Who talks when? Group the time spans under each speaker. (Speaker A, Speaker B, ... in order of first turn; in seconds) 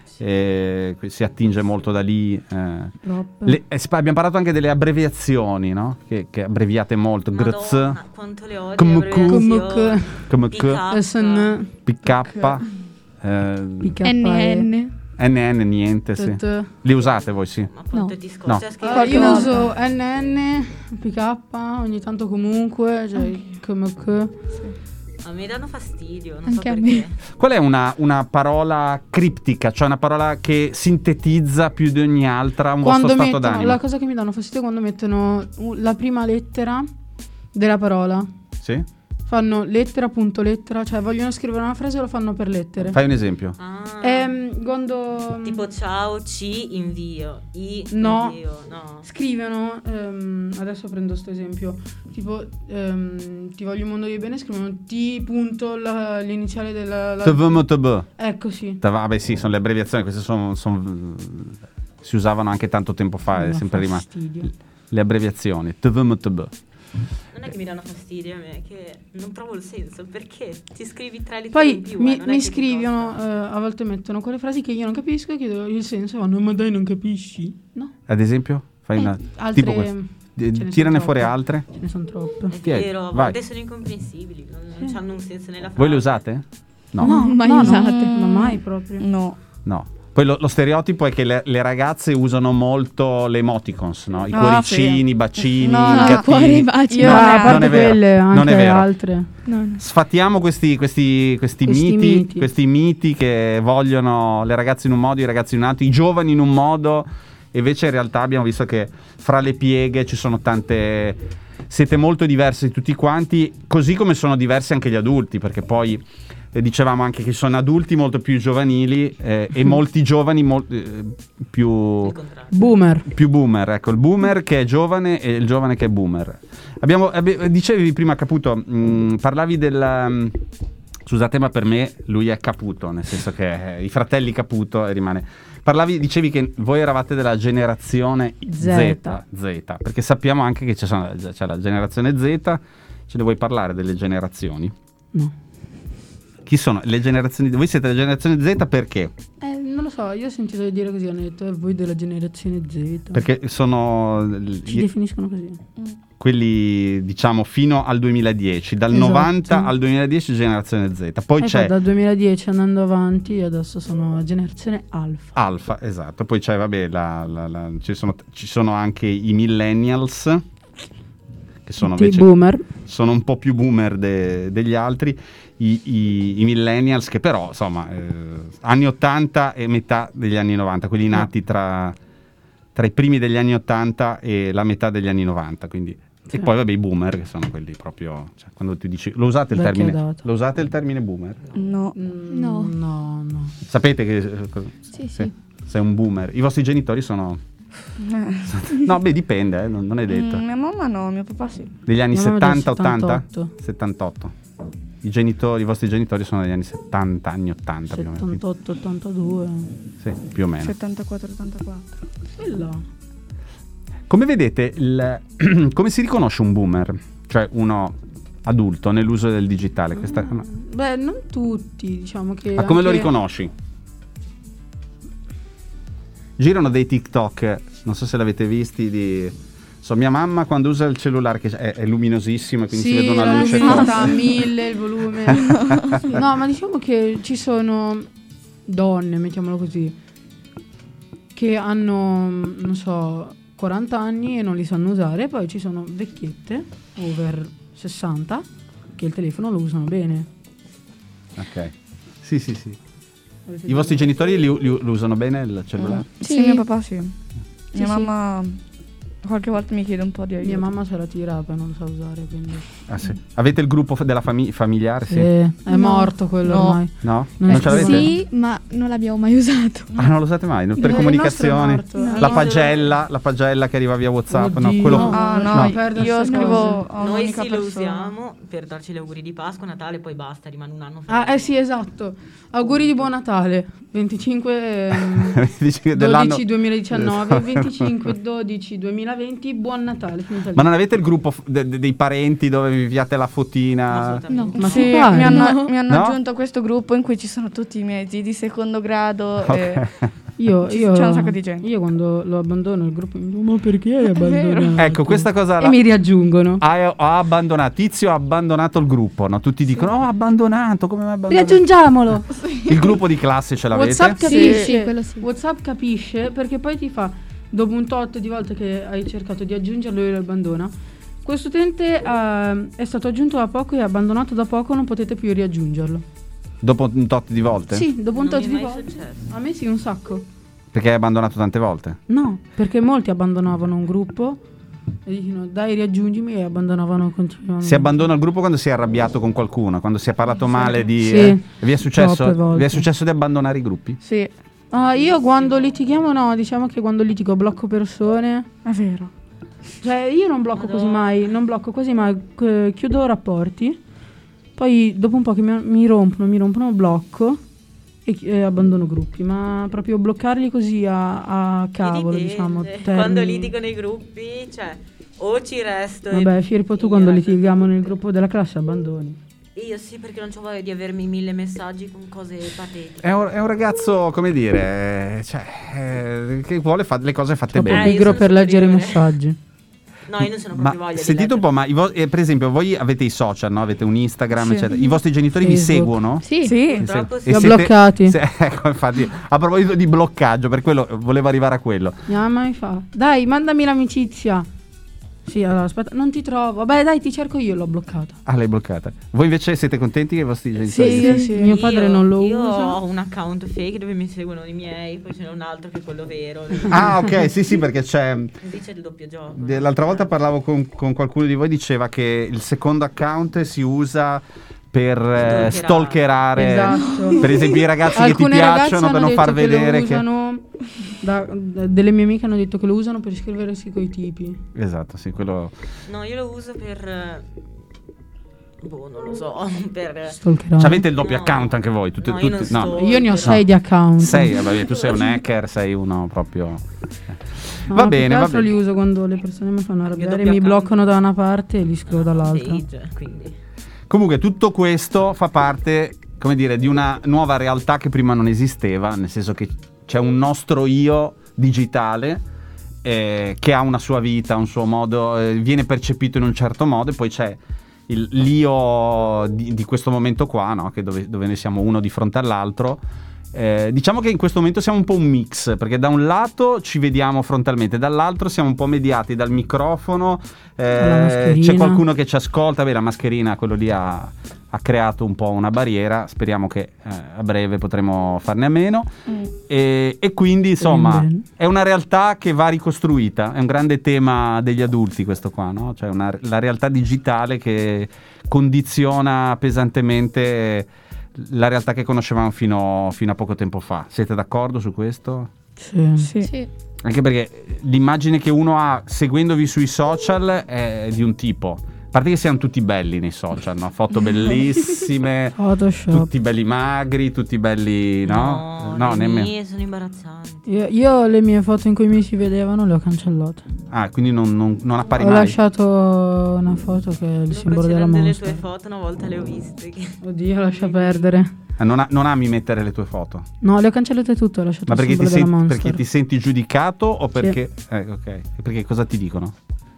Speaker A: 0.2-8.0, 8.8-9.5, 10.3-10.8, 11.8-12.7, 13.2-13.9, 15.2-17.7, 27.3-33.8, 38.6-38.9, 42.9-43.6, 57.2-58.1, 58.8-64.1, 64.9-66.5, 78.1-81.7, 82.6-83.4, 85.8-87.2, 89.7-98.9, 99.8-122.2, 123.1-130.4, 131.1-144.7, 146.4-149.1, 153.1-154.9, 156.2-161.7, 165.4-170.4, 171.7-182.0, 182.8-191.4, 193.7-197.4, 198.5-200.4, 201.9-204.3, 205.0-208.4, 210.0-210.7, 214.1-220.4, 222.6-223.5, 226.4-234.3, 235.2-236.2, 251.4-252.8, 253.7-256.1, 262.9-265.3, 267.0-268.1, 270.0-275.8, 285.1-288.1, 290.5-294.2, 295.9-296.2, 299.4-300.1, 304.8-305.8, 306.6-311.7, 312.5-314.2, 326.6-327.9, 330.7-332.0, 337.6-344.0, 373.0-378.0, 380.6-386.3, 386.8-392.0, 398.3-401.2, 406.7-408.3, 409.4-420.0, 424.6-425.5, 430.6-433.4, 434.0-438.5, 443.9-452.2, 452.8-462.8, 463.3-495.3, 496.8-505.4, 505.9-509.3, 513.7-515.4, 521.6-523.3, 524.7-529.4
Speaker B: 3.0-3.6, 9.3-10.3, 10.9-11.7, 13.8-14.7, 16.2-16.7, 18.8-24.4, 32.8-36.9, 37.5-38.3, 39.3-43.0, 44.0-45.6, 47.9-48.4, 49.0-57.6, 58.2-58.8, 63.3-64.5, 71.5-77.9, 79.0-82.5, 87.0-89.1, 97.0-99.3, 101.7-102.5, 122.5-123.1, 138.5-139.2, 149.4-153.2, 154.7-155.6, 158.9-159.7, 161.4-165.4, 171.8-172.7, 189.5-190.3, 191.9-193.5, 202.1-203.5, 207.9-209.7, 212.4-212.8, 219.9-223.1, 232.7-238.1, 238.7-239.9, 241.3-250.3, 253.5-254.3, 257.8-258.0, 260.4-262.7, 265.1-268.1, 270.8-272.6, 274.3-276.9, 281.1-285.4, 285.9-290.7, 294.6-295.6, 300.4-306.6, 311.3-312.4, 313.7-320.7, 321.2-326.1, 327.7-330.2, 332.1-334.4, 335.1-338.1, 340.7-342.9, 344.7-348.5, 349.8-353.8, 354.6-357.4, 358.1-363.5, 366.1-369.2, 377.5-379.4, 385.4-386.0, 387.3-388.2, 392.1-394.5, 395.2-398.2, 400.7-402.8, 416.4-424.4, 430.1-430.9, 432.7-434.6, 437.7-442.6, 470.8-471.8, 480.6-481.2, 495.6-496.1, 505.4-506.1, 510.5-513.5, 515.0-518.5, 520.0-521.3, 523.4-525.8
Speaker C: 7.3-11.6, 17.7-20.6, 25.2-27.2, 43.6-44.4, 45.4-49.1, 67.3-73.2, 82.5-86.2, 122.0-122.7, 272.3-272.7, 277.0-281.6, 282.7-283.0, 293.9-295.0, 328.1-329.3, 345.3-345.7, 350.6-351.4, 361.8-368.0, 369.6-373.4, 377.7-379.1, 380.1-381.5, 386.6-387.7, 401.4-407.2, 408.4-410.1, 415.2-416.5, 425.9-427.6, 428.6-430.2, 431.0-433.4, 439.9-440.9, 441.9-443.4, 508.0-510.4, 517.3-521.1
Speaker D: 14.0-14.9, 18.9-19.6, 26.5-27.1, 87.0-88.2, 95.8-97.6, 99.5-99.8, 192.3-192.7, 194.9-195.3, 256.2-256.6, 265.7-266.1, 267.5-270.0, 271.9-272.4, 276.1-276.7, 294.3-295.7, 314.1-315.3, 386.2-386.6, 496.2-496.5
Speaker E: 87.5-89.4, 94.3-98.0, 191.5-191.9, 198.0-198.7, 200.1-201.7, 210.6-212.0, 233.5-234.2, 235.3-236.1, 255.8-257.1, 257.7-258.6, 259.2-260.6, 266.4-266.8, 274.9-278.1, 294.5-299.9, 300.7-301.7, 304.2-304.8, 312.4-312.9, 314.3-314.7, 344.0-344.3, 348.6-349.1, 384.4-384.7, 386.4-386.8, 400.8-401.5, 496.0-496.3